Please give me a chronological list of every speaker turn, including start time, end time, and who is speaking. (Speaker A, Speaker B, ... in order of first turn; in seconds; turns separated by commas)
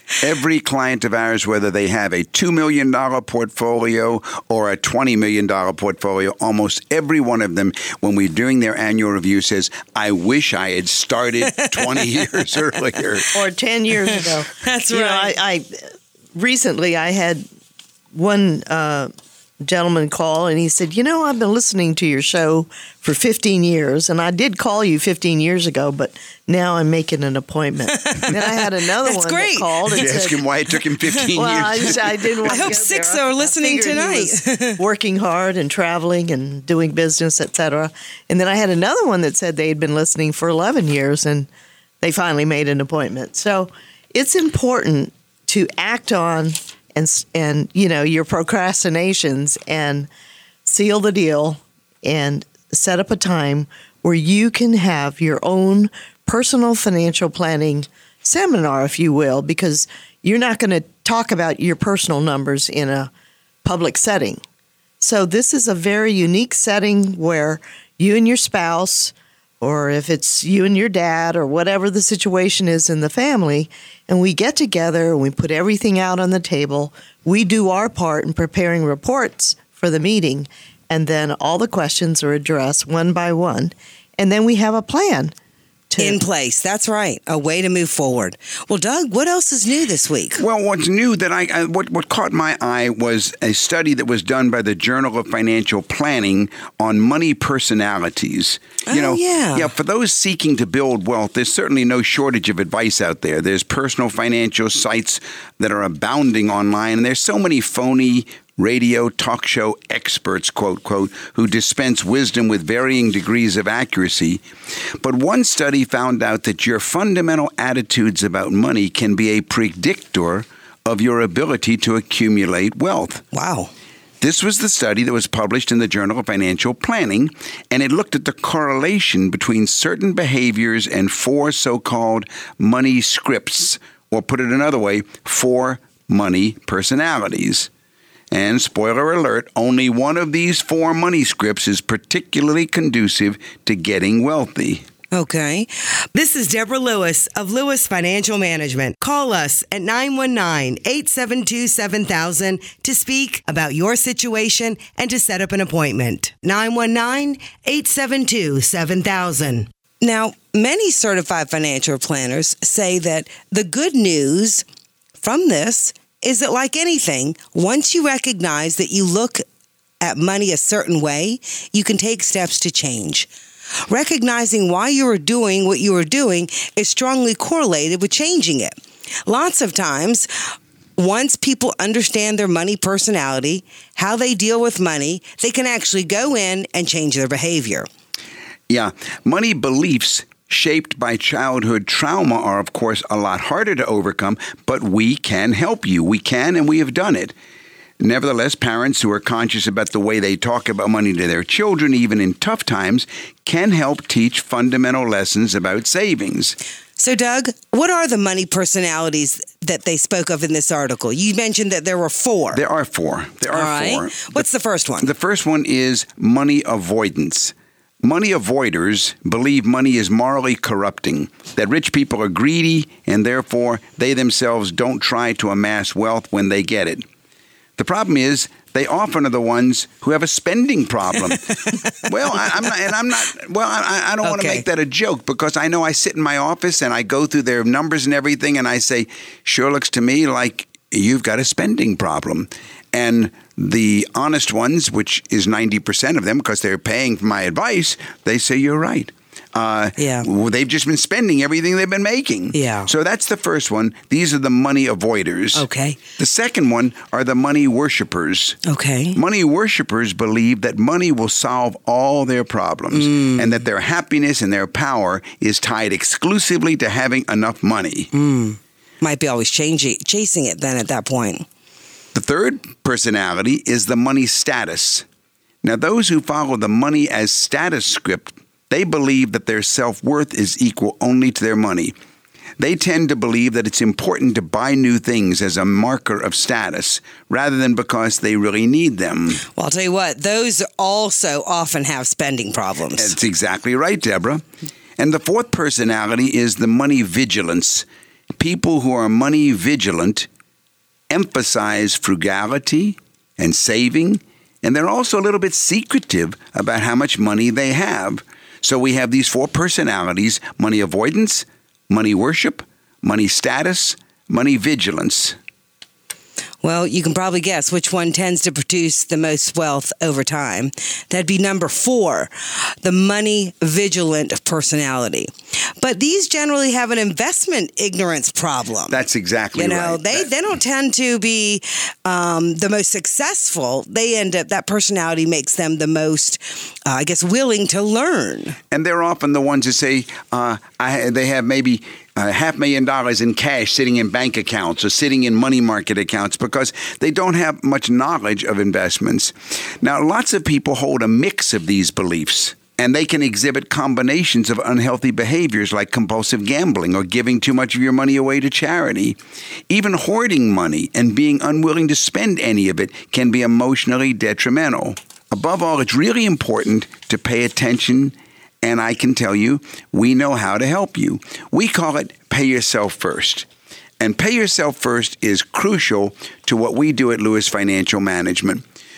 Speaker A: 0.2-13.3, Speaker B: 11.5-12.2, Speaker C: 13.3-15.7, Speaker B: 14.6-15.3, Speaker C: 16.3-17.4, Speaker C: 18.1-19.1, Speaker C: 19.6-30.4, Speaker B: 27.9-30.2, Speaker A: 30.0-32.8, Speaker B: 31.1-31.9, Speaker C: 31.3-41.5, Speaker B: 32.4-34.8, Speaker C: 42.0-50.1, Speaker C: 50.6-63.1, Speaker C: 63.6-64.4, Speaker C: 65.0-85.3, Speaker C: 85.9-86.2, Speaker B: 86.0-90.4, Speaker A: 90.4-114.4, Speaker B: 98.9-99.7, Speaker A: 115.0-123.2, Speaker B: 123.3-123.7, Speaker A: 124.2-137.7, Speaker A: 138.3-144.8, Speaker B: 145.1-164.6, Speaker B: 165.2-169.4, Speaker B: 170.0-173.3, Speaker B: 173.9-180.3, Speaker B: 181.0-187.9, Speaker A: 188.7-197.3, Speaker A: 198.0-206.6, Speaker B: 207.0-212.6, Speaker A: 212.5-214.4, Speaker B: 213.5-215.1, Speaker A: 215.0-227.1, Speaker A: 227.8-231.4, Speaker B: 231.3-232.7, Speaker A: 232.0-255.7, Speaker B: 234.2-234.6, Speaker B: 250.0-250.3, Speaker B: 252.5-252.9, Speaker B: 255.5-256.0, Speaker A: 256.2-258.6, Speaker B: 258.6-259.2, Speaker A: 259.1-268.1, Speaker B: 262.9-263.5, Speaker B: 268.1-271.4, Speaker A: 272.1-275.1, Speaker A: 275.6-281.9, Speaker A: 282.6-289.4, Speaker B: 289.6-293.1, Speaker A: 292.9-294.4, Speaker A: 295.0-297.9, Speaker A: 298.4-300.3, Speaker A: 301.1-315.4, Speaker B: 316.6-329.0, Speaker A: 328.9-330.3, Speaker B: 329.6-338.6, Speaker A: 338.7-373.5, Speaker A: 374.0-378.6